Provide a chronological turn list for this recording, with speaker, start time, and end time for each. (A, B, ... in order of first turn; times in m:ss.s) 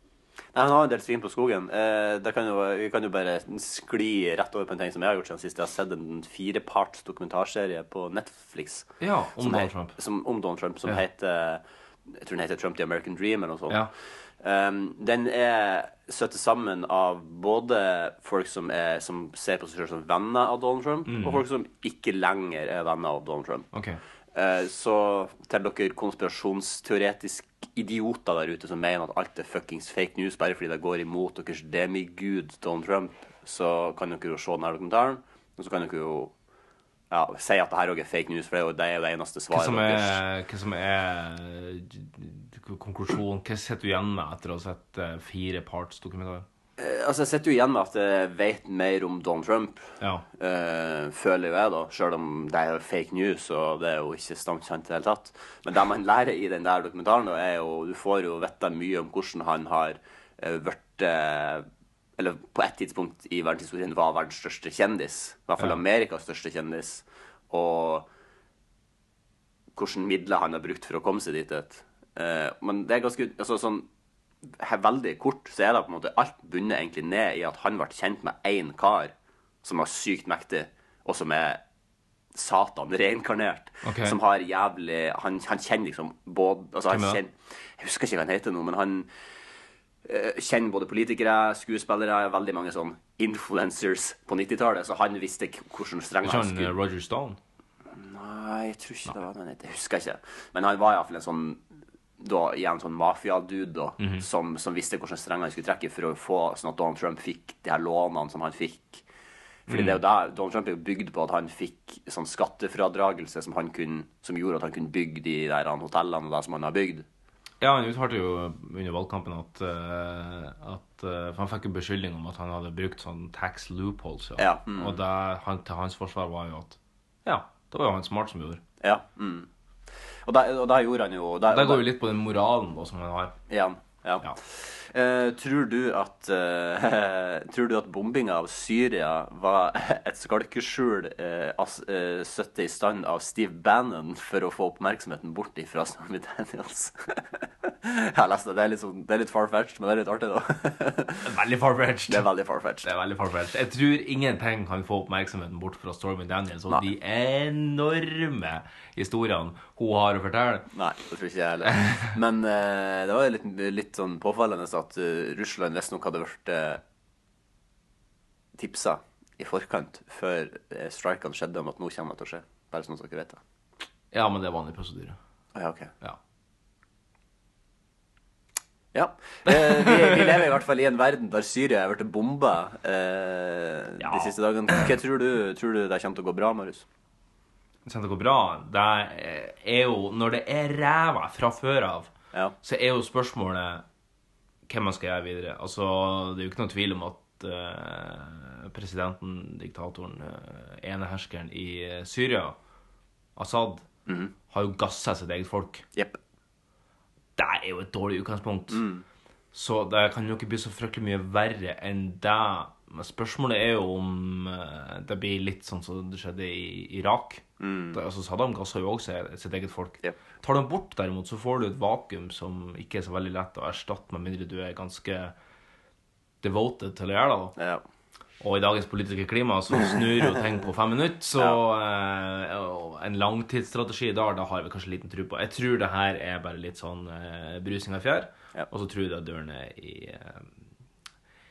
0:00.5-0:08.9 A
0:09.0-0:10.0 B
0:09.4-0:13.8 A
0:14.4-0:23.7 A
0:21.1-0:21.4 B
0:23.7-0:24.0 B
0:24.3-0:36.3 A
0:37.1-0:40.2 A
0:39.5-0:46.5 B
0:46.8-0:49.9 A
0:50.4-1:01.7 A
1:02.2-1:08.1 A
1:09.8-1:13.9 A
1:14.6-1:19.1 A
1:19.6-1:21.6 A
1:22.4-1:29.1 A
1:23.8-1:24.2 B
1:26.9-1:27.2 B
1:30.0-1:36.7 A
1:36.2-1:37.4 B
1:37.9-1:41.6 A
1:42.2-1:49.0 A
1:44.0-1:44.2 B
1:49.7-1:50.0 B
1:49.7-1:57.0 A
1:57.6-2:08.6 B
2:04.4-2:05.0 A
2:08.8-2:09.5 A
2:10.2-2:11.8 A
2:11.5-2:13.4 B
2:13.5-2:31.3 A
2:31.2-2:32.3 B
2:32.1-2:32.9 A
2:32.8-2:40.7 B
2:40.7-2:46.8 A
2:41.8-2:42.1 B
2:48.6-2:53.4 A
2:54.1-2:55.2 B
2:55.6-2:55.9 A
2:58.9-3:06.8 A
3:04.0-3:04.9 B
3:07.9-3:12.1 B
3:12.6-3:13.8 B
3:14.7-3:22.6 B
3:23.4-3:23.8 B
3:24.1-3:24.3 A
3:24.5-3:25.9 B
3:27.4-3:28.8 B
3:28.7-3:29.0 A
3:29.5-3:45.3 B
3:37.6-3:38.0 A
3:46.4-3:47.6 B
3:47.6-3:47.8 A
3:48.4-4:00.5 B